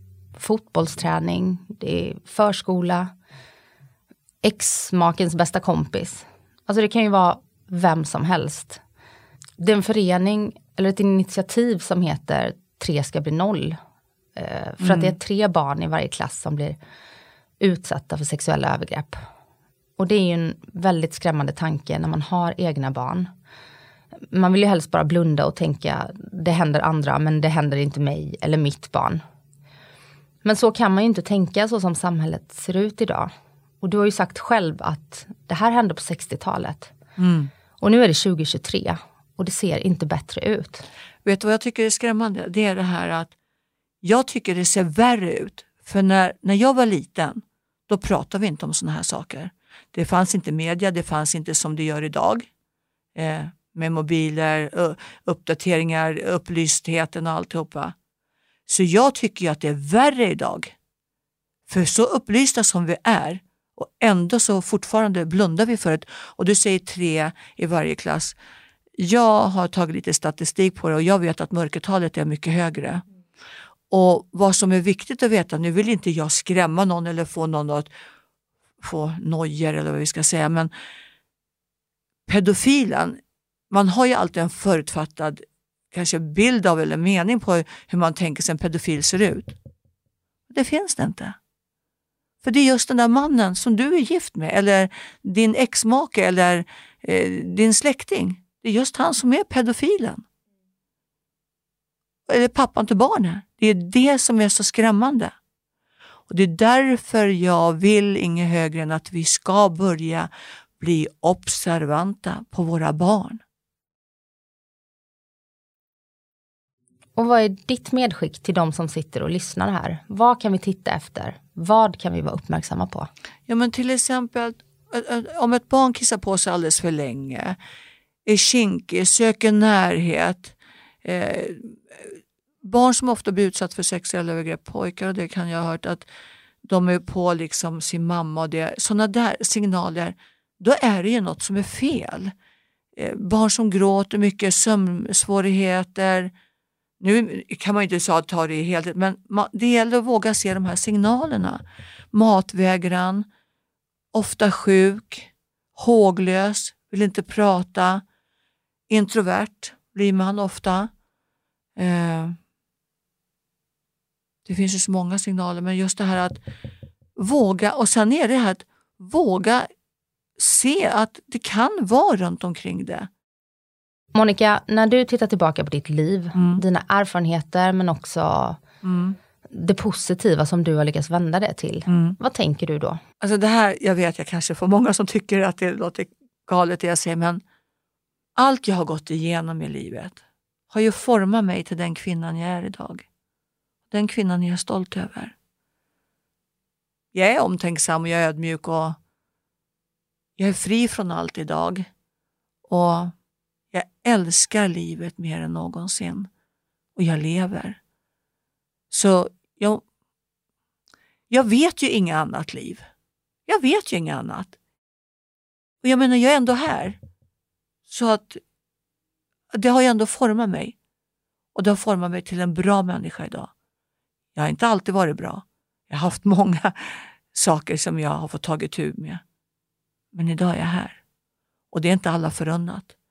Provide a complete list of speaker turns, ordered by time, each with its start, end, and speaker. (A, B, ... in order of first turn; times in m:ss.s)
0:00.3-0:03.1 A
0:04.4-0:08.8 A
0:09.6-0:13.8 A
0:14.4-0:16.8 A
0:14.8-0:15.2 B
0:17.6-0:19.2 A
0:20.0-0:23.3 A
0:24.3-0:29.2 A
0:30.4-0:33.3 A
0:33.8-0:36.9 A
0:37.2-0:37.5 B
0:37.8-0:40.8 A
0:41.2-0:43.3 B
0:44.0-0:52.5 B
0:53.1-0:57.9 B
0:58.7-1:00.7 B
1:01.7-1:08.4 B
1:09.0-1:13.0 B
1:13.9-1:17.9 B
1:18.8-1:20.7 B
1:22.3-1:23.2 B
1:23.7-1:29.6 B
1:30.5-1:31.4 B
1:32.4-1:40.2 B
1:42.3-1:45.3 B
1:46.3-1:53.4 B
1:57.2-2:03.1 A
2:03.5-2:07.6 B
2:08.2-2:16.1 B
2:16.6-2:22.3 B
2:23.0-2:26.3 B
2:27.0-2:31.6 B
2:32.1-2:33.3 B
2:34.1-2:38.0 B
2:38.9-2:40.9 B
2:41.8-2:42.4 B
2:44.4-2:46.4 B
2:47.2-2:49.7 B
2:50.4-2:53.1 B
2:54.1-2:58.6 A
2:56.3-2:56.6 B
2:58.8-2:59.2 B
2:59.5-3:03.0 A
3:01.9-3:02.2 B
3:03.2-3:07.4 B
3:08.4-3:13.0 B
3:13.9-3:15.3 B
3:17.1-3:19.0 B
3:20.4-3:21.9 B
3:22.7-3:23.1 B
3:23.7-3:26.3 B
3:27.0-3:27.8 B
3:28.9-3:29.8 B
3:31.3-3:32.8 B
3:33.5-3:34.6 B
3:35.8-3:37.0 B
3:37.9-3:38.4 B
3:39.5-3:40.8 B
3:41.5-3:43.5 B
3:44.3-3:49.2 B
3:50.1-3:51.0 B
3:51.7-3:52.9 B